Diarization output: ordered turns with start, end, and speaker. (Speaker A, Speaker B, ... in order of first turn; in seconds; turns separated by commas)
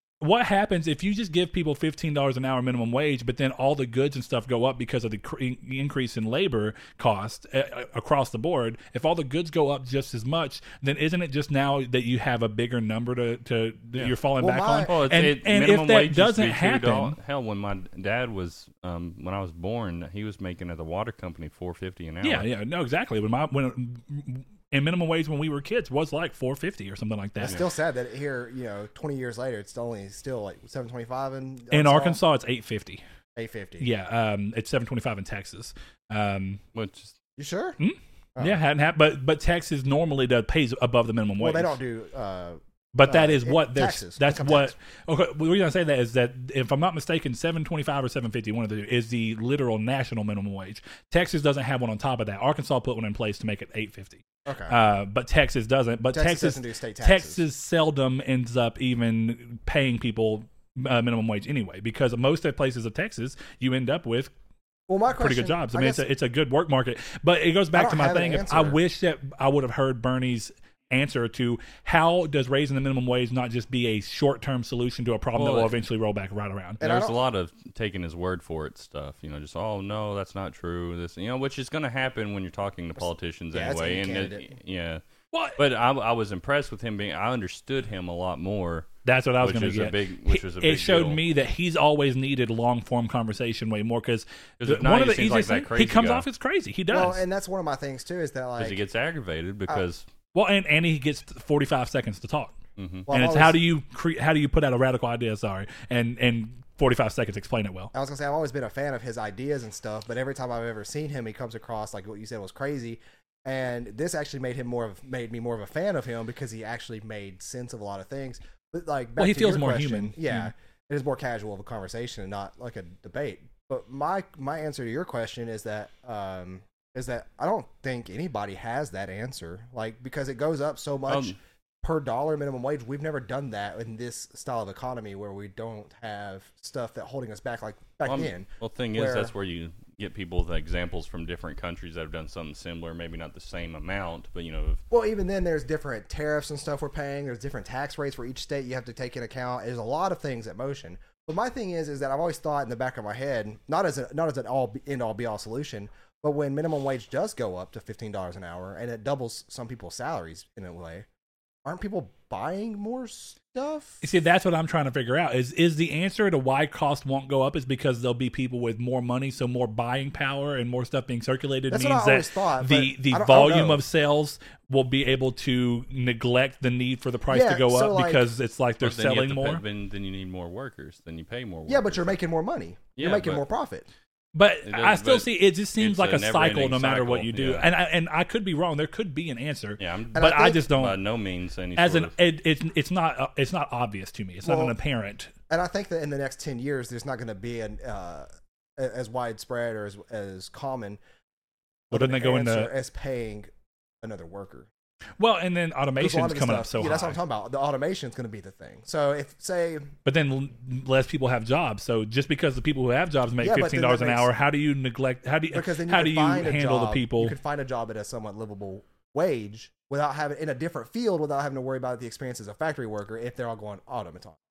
Speaker A: 0.2-17.2, Speaker B: 14.4-14.9, Speaker C: 14.9-22.5, Speaker A: 22.2-27.6, Speaker B: 27.4-32.2, Speaker A: 31.7-33.0, Speaker B: 33.4-33.9, Speaker A: 33.8-36.6, Speaker C: 36.7-37.1, Speaker B: 37.4-37.8, Speaker A: 37.8-41.8, Speaker B: 41.4-44.7, Speaker A: 42.9-64.3, Speaker B: 54.5-54.8, Speaker B: 56.1-57.4, Speaker B: 64.9-66.0, Speaker A: 65.2-76.8, Speaker B: 67.7-68.8, Speaker C: 75.4-75.7, Speaker B: 76.8-77.2, Speaker C: 76.8-85.0, Speaker B: 83.5-84.5, Speaker A: 85.3-85.6, Speaker C: 85.6-88.9, Speaker A: 89.0-97.2, Speaker C: 89.4-91.2, Speaker C: 94.6-96.2, Speaker B: 96.9-98.8, Speaker C: 98.6-100.1, Speaker A: 100.3-102.5, Speaker C: 102.8-103.1, Speaker B: 103.1-103.6, Speaker A: 103.1-107.9, Speaker B: 107.9-139.3, Speaker A: 119.2-120.5, Speaker C: 131.1-131.4, Speaker C: 138.1-144.8, Speaker B: 144.9-161.1, Speaker B: 161.7-164.0, Speaker A: 164.0-179.6, Speaker B: 171.7-173.8, Speaker B: 177.3-178.3, Speaker C: 178.8-182.2, Speaker B: 181.7-183.9, Speaker C: 183.0-183.4, Speaker A: 184.3-191.0, Speaker C: 184.6-187.7, Speaker C: 189.8-192.1, Speaker B: 190.1-190.7, Speaker A: 191.8-195.3, Speaker B: 194.4-194.8, Speaker B: 195.5-201.0, Speaker B: 201.9-204.7, Speaker A: 201.9-202.7, Speaker A: 205.2-207.2, Speaker B: 206.0-209.9, Speaker A: 210.1-217.3, Speaker B: 213.4-214.3, Speaker B: 215.5-224.4